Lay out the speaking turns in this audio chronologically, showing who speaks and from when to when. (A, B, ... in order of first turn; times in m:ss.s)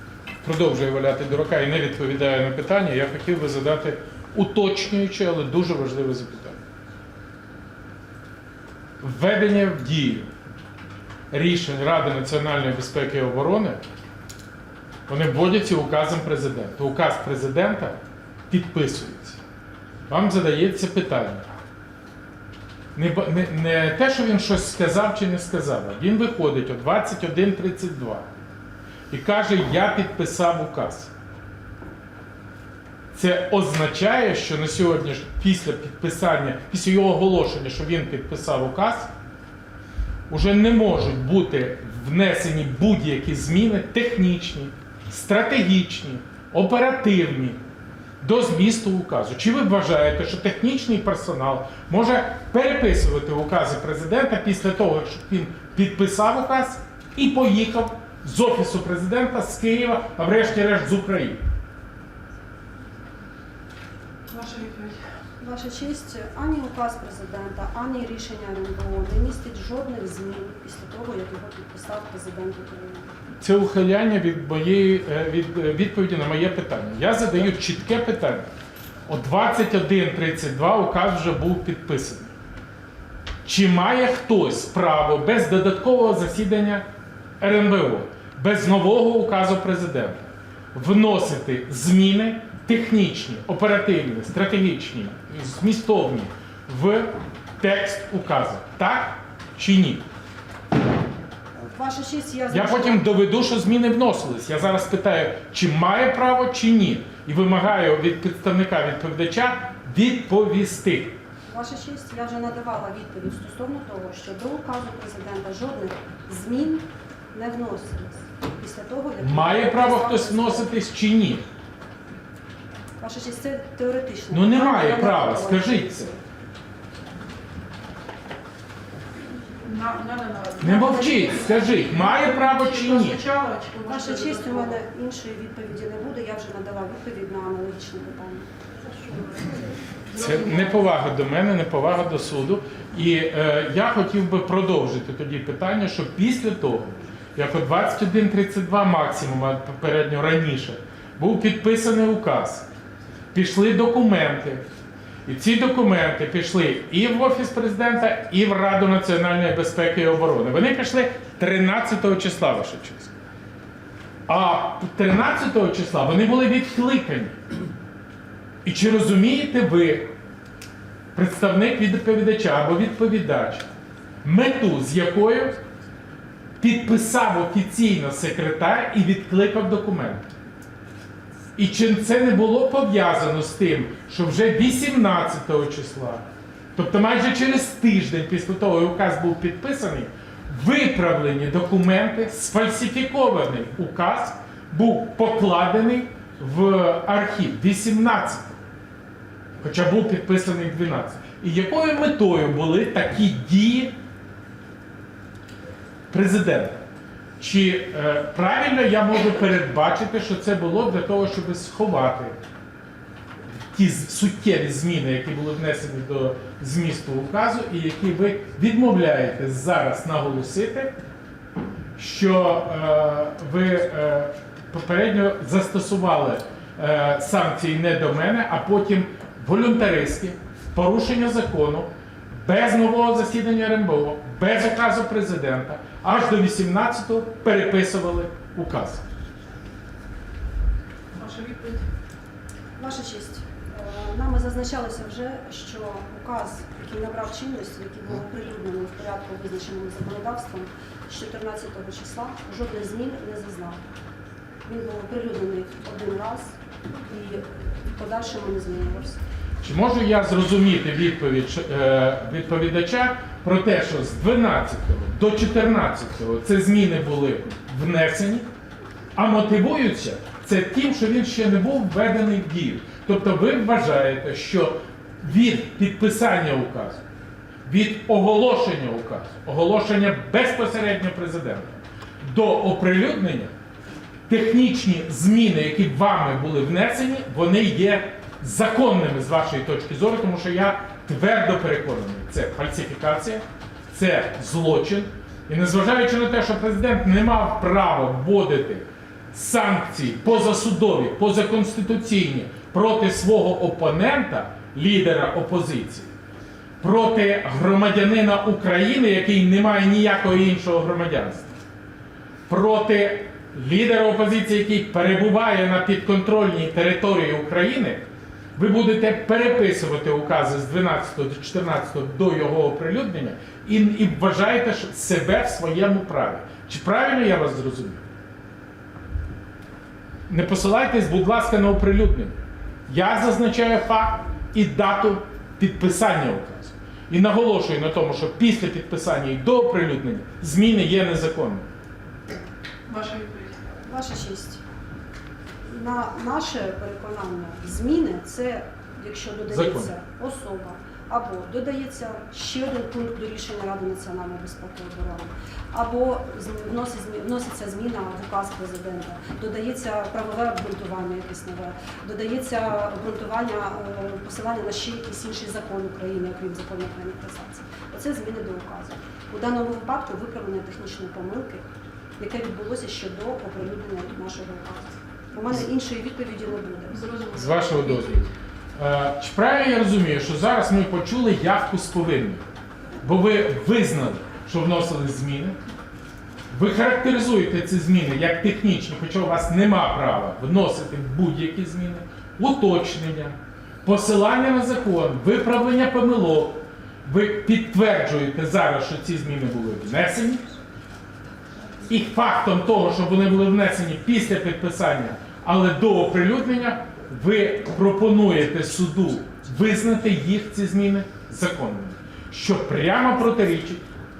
0:00.4-0:06.6 A
0:09.0-0:10.3 A
0:11.3-0:13.8 A
0:15.1-0:18.0 A
0:18.5-0:19.4 A
0:20.1-0:21.5 A
0:22.9-0:28.3 A
0:29.1-0:31.1 A
0:33.1-0:39.1 A
0:40.3-0:47.6 A
0:48.2-1:01.4 A
1:04.3-1:05.1 B
1:05.4-1:13.1 C
1:13.4-1:18.5 A
1:19.1-1:22.3 A
1:23.4-1:26.8 A
1:27.4-1:40.0 A
1:41.6-1:43.1 C
1:42.5-1:51.2 A
1:51.5-2:00.7 C
1:59.2-2:01.4 A
2:03.0-2:06.1 C
2:04.3-2:06.1 A
2:09.6-2:14.8 B
2:10.6-2:13.2 A
2:10.7-2:11.5 C
2:13.9-2:18.5 C
2:20.1-2:20.8 B
2:20.1-2:32.6 A
2:33.3-2:34.6 A
2:35.2-2:43.1 A
2:44.3-2:47.4 A
2:48.6-2:50.1 A
2:51.1-2:53.6 A
2:54.2-2:55.6 A
2:56.6-3:00.2 A
3:01.6-3:06.2 A
3:06.8-3:18.5 A
3:19.6-3:24.0 A
3:26.1-3:26.8 A
3:27.4-3:32.4 A
3:33.7-3:40.9 A
3:42.0-3:59.0 A
4:01.1-4:01.8 B
4:02.8-4:13.8 C
4:14.6-4:19.2 C
4:19.6-4:28.5 A
4:29.2-4:37.0 A
4:37.6-4:43.5 A
4:44.3-5:06.1 A
5:06.8-5:11.5 A
5:12.5-5:18.0 A
5:18.6-5:28.0 A
5:30.3-5:32.4 A
5:32.9-5:41.6 A
5:42.9-5:43.6 B
5:43.8-5:44.6 C
5:45.7-6:11.6 C
5:49.5-5:49.9 A
6:12.2-6:17.0 C
6:16.9-6:18.3 B
6:17.3-6:18.2 A
6:18.8-6:22.4 A
6:23.0-6:25.6 A
6:26.5-6:40.4 A
6:41.8-6:53.8 A